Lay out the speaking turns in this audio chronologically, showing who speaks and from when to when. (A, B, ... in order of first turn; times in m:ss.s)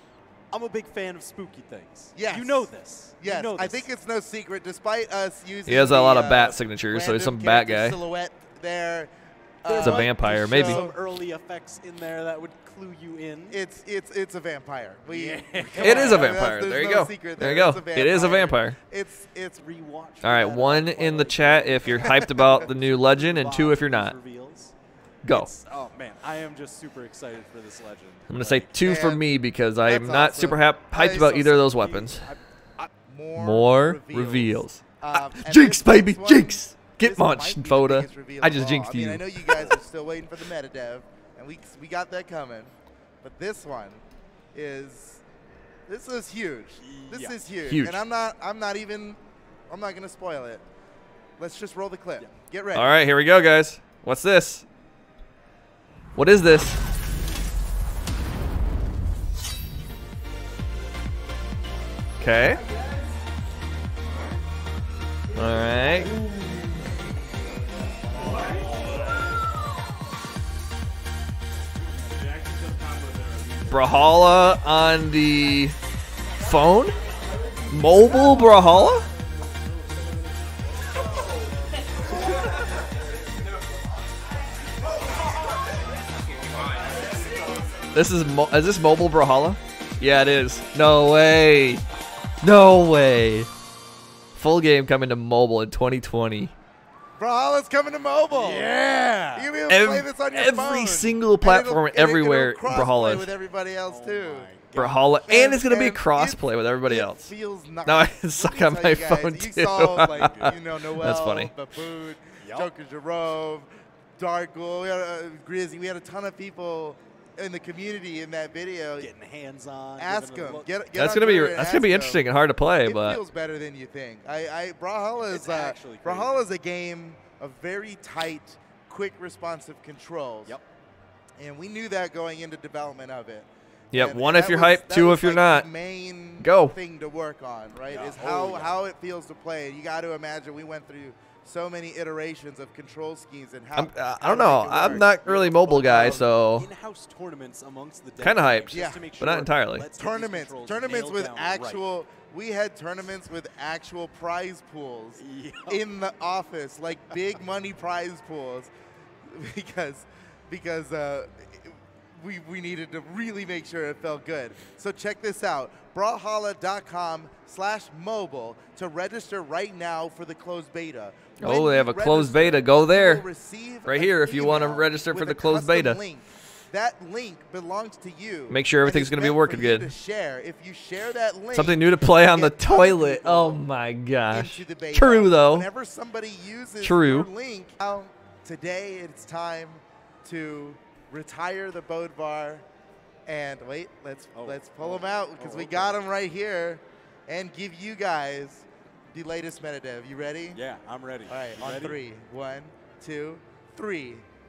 0:00.5-0:03.9 A
0:02.1-0:09.1 B
0:05.7-0:08.0 C
0:09.6-0:11.0 B
0:09.6-0:13.6 A
0:09.8-0:10.8 C
0:13.5-0:19.6 B
0:15.1-0:16.4 A
0:15.8-0:18.8 C
0:19.6-0:24.7 A
0:20.2-0:24.2 C
0:20.2-0:20.8 B
0:22.1-0:22.6 B
0:25.2-0:25.5 C
0:25.3-0:28.8 A
0:28.3-0:32.3 C
0:28.8-0:29.2 B
0:29.8-0:31.8 B
0:31.8-0:32.9 A
0:33.0-0:44.0 B
0:33.4-0:39.7 C
0:44.5-0:45.2 B
0:45.9-0:50.6 B
0:46.8-0:47.4 A
0:47.6-0:48.0 C
0:51.4-0:52.9 B
0:52.7-0:54.6 C
0:56.1-0:56.8 C
1:02.2-1:02.6 C
1:05.4-1:06.1 C
1:12.4-1:13.5 A
1:13.7-1:15.7 C
1:16.4-1:16.9 C
1:17.7-1:19.1 C
1:27.9-1:31.8 C
1:32.4-1:33.5 C
1:34.4-1:36.5 C
1:37.2-1:38.7 B
1:38.3-1:39.5 A
1:39.3-1:59.1 B
1:39.7-1:43.3 C
1:43.8-1:45.0 A
1:44.8-1:47.3 C
1:47.8-1:51.5 C
1:50.2-1:50.5 A
1:52.4-1:52.7 A
1:59.0-2:00.7 A
2:00.0-2:02.2 B
2:00.9-2:03.2 C
2:02.8-2:10.6 B
2:05.3-2:06.4 A
2:11.4-2:25.2 B
2:13.9-2:15.7 C
2:16.4-2:16.8 C
2:17.9-2:18.8 A
2:23.7-2:26.7 C
2:24.8-2:31.8 A
2:25.8-2:26.2 B
2:28.2-2:29.8 C
2:28.7-2:29.1 B
2:30.0-2:38.7 B
2:35.2-2:35.8 A
2:39.3-3:03.6 B
2:51.4-2:53.2 C
2:53.8-2:56.0 C
2:58.5-2:59.9 C
3:01.5-3:05.7 C
3:04.3-3:12.6 B
3:06.8-3:07.3 C
3:13.2-3:20.6 B
3:14.3-3:16.0 A
3:20.5-3:22.0 A
3:21.3-3:24.2 B